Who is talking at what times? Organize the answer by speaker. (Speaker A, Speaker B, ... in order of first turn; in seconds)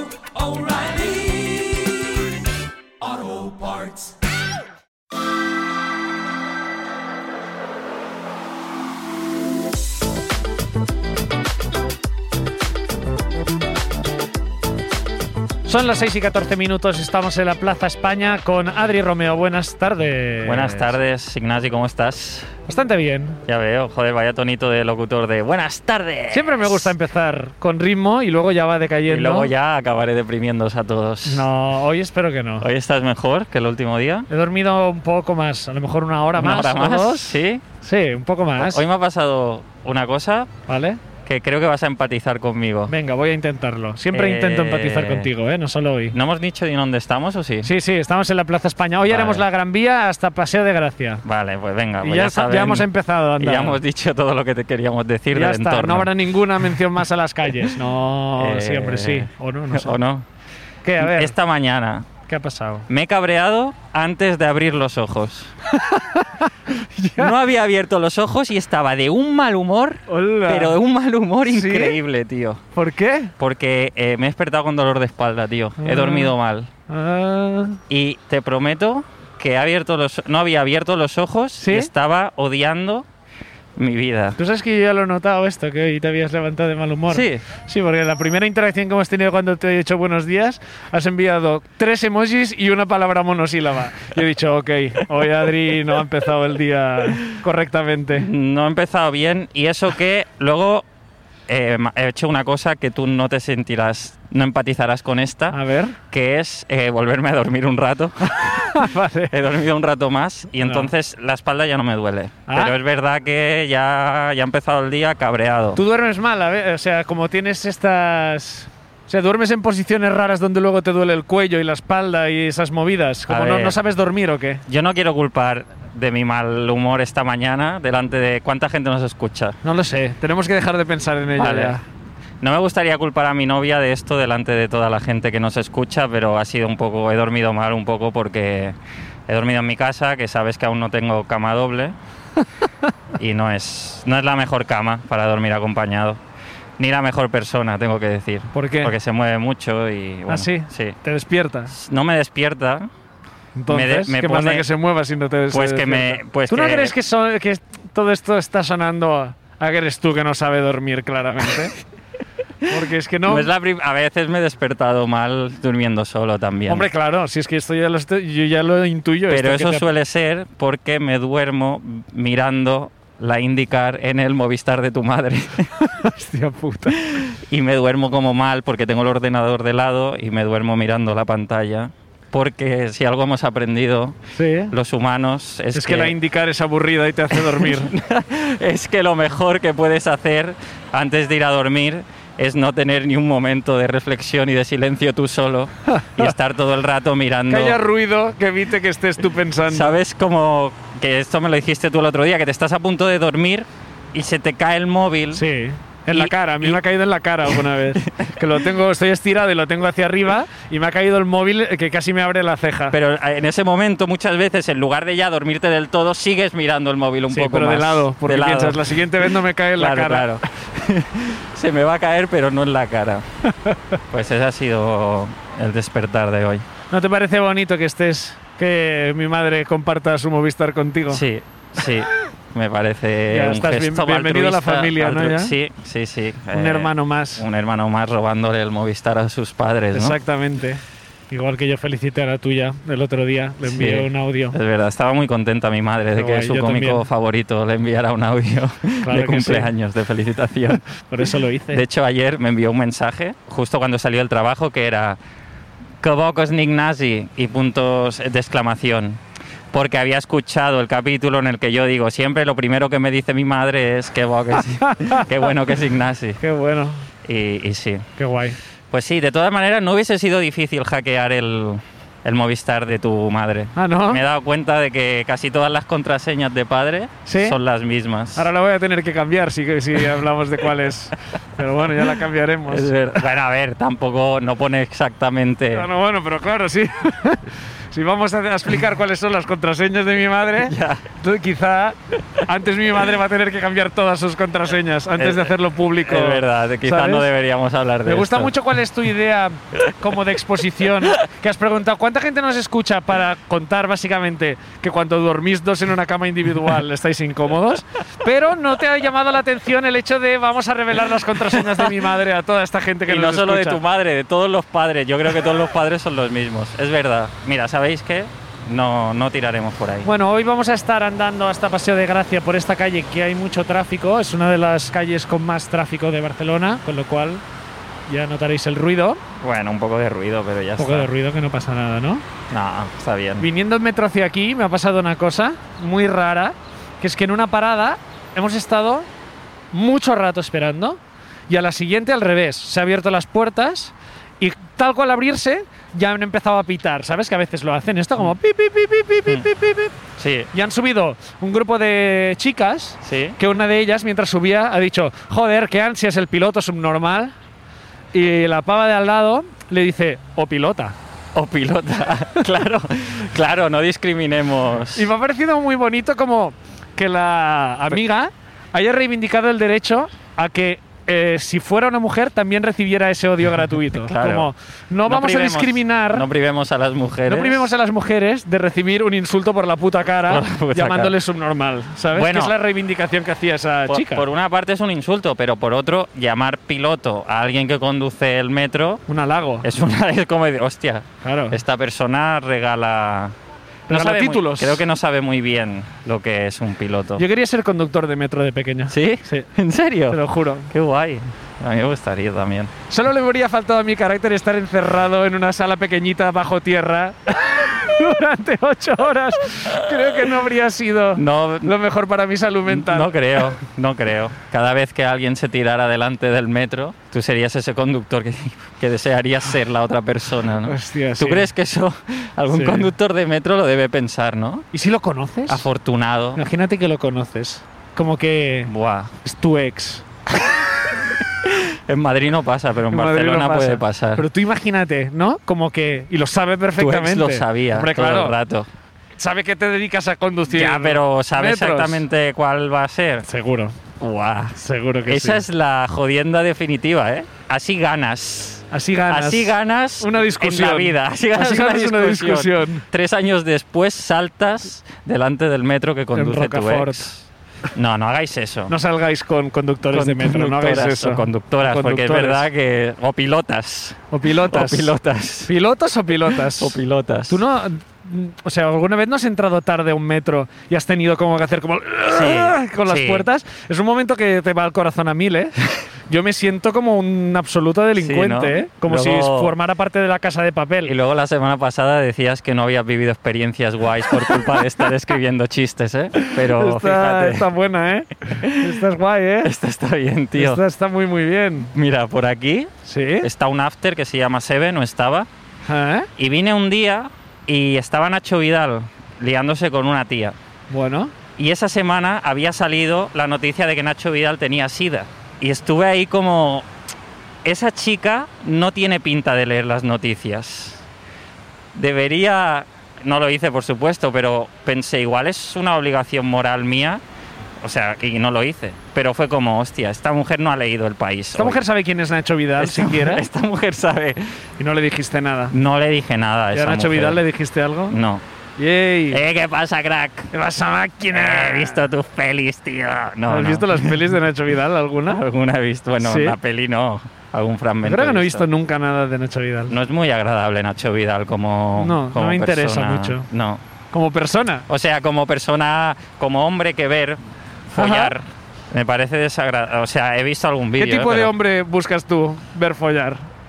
Speaker A: 0.4-1.7, 3.1-3.9
Speaker B: 15.6-20.9, 22.7-23.4, 26.3-29.5, 31.2-32.7, 34.3-38.8, 40.7-41.0, 42.9-46.2, 47.6-51.2, 52.0-53.8, 55.3-60.0, 60.8-61.3, 62.3-62.9, 65.7-67.3, 70.1-70.8, 71.5-72.0, 72.8-73.3, 75.8-76.3, 76.9-77.8, 81.6-81.9, 84.4-98.3, 105.5-106.0, 108.4-109.3, 110.6-110.9, 112.5-112.8, 115.8-124.6, 129.6-131.8, 148.5-148.9, 150.3-151.7, 153.6-161.8, 162.7-163.5, 166.7-169.8, 175.8-177.0, 184.3-184.7, 185.7-187.9, 195.9-196.2, 197.5-199.9, 205.3-212.9, 217.3-220.3, 226.9-231.2, 233.3-235.5, 236.5-237.4, 239.9-244.6, 246.1-247.0, 249.0-249.7, 250.9-251.8, 264.9-265.2, 266.4-267.0, 268.2-268.6, 273.8-274.2, 277.2-277.6, 278.4-283.2, 285.7-297.3, 298.1-313.8, 320.1-327.4, 328.1-329.2, 330.8-332.2, 333.4-339.1, 339.7-349.9, 350.5-357.4, 358.1-360.9, 364.9-376.2, 377.3-384.2, 389.1-389.7, 391.2-391.6, 393.9-394.8, 397.2-399.5, 400.1-400.7, 402.9-413.1, 420.7-421.5, 422.5-422.9, 424.7-425.7, 426.4-430.0, 432.9-438.4, 439.2-442.0, 443.2-443.8, 444.6-445.4, 448.7-452.9, 456.1-457.1, 458.7-462.5, 464.1-464.9, 465.5-466.8, 467.3-475.5, 476.1-480.9, 486.1-489.5, 490.4-491.7, 492.9-493.3, 495.7-496.1, 500.7-501.1, 521.4-523.2, 524.6-525.5, 526.5-528.0, 528.6-529.2, 530.3-531.9, 533.3-535.2, 536.0-536.4, 537.8-539.7, 541.8-543.3, 543.9-544.6, 547.8-548.1, 550.8-553.2
Speaker C: 20.4-22.5, 23.5-26.9, 29.1-31.5, 32.6-34.3, 36.4-37.6, 38.6-40.5, 41.2-42.9, 44.1-45.3, 46.1-47.7, 49.1-49.5, 51.2-56.1, 58.4-60.3, 61.0-62.1, 62.9-65.5, 67.2-72.6, 73.4-76.7, 77.9-83.1, 83.8-84.4, 87.1-87.5, 98.2-100.9, 101.5-105.6, 106.1-115.8, 123.3-123.8, 124.7-129.6, 131.4-131.8, 132.4-141.9, 143.2-146.2, 146.8-150.9, 151.7-152.9, 153.7-154.7, 155.5-156.9, 163.2-166.9, 169.3-175.7, 176.9-184.2, 184.7-186.2, 187.3-197.8, 199.7-205.4, 206.1-206.8, 212.9-218.9, 219.8-223.2, 224.1-226.6, 231.1-240.2, 243.6-250.8, 251.7-255.2, 256.0-259.2, 259.7-266.4, 267.2-268.1, 268.9-278.5, 282.7-285.9, 290.7-291.1, 295.2-295.5, 296.0-298.6, 311.5-311.9, 313.1-320.1, 329.4-331.1, 332.5-333.5, 350.2-350.5, 353.0-353.4, 361.3-365.1, 373.9-374.5, 375.1-377.7, 380.3-381.1, 382.1-382.5, 383.9-389.0, 389.6-393.4, 393.9-397.2, 398.9-402.7, 409.7-410.1, 411.2-411.7, 412.7-424.7, 425.5-426.4, 428.7-429.1, 431.4-434.2, 436.8-438.7, 440.5-443.2, 444.0-458.7, 459.9-465.5, 466.5-467.4, 472.1-473.3, 478.0-479.5, 480.9-487.5, 488.4-488.8, 489.4-490.6, 491.7-495.3, 496.2-500.4, 501.4-506.7, 507.4-510.8, 511.7-517.0, 517.6-521.6, 522.6-524.2, 525.5-527.2, 527.9-528.2, 529.1-530.3, 531.1-534.1, 535.1-538.5, 539.7-543.6, 544.7-551.3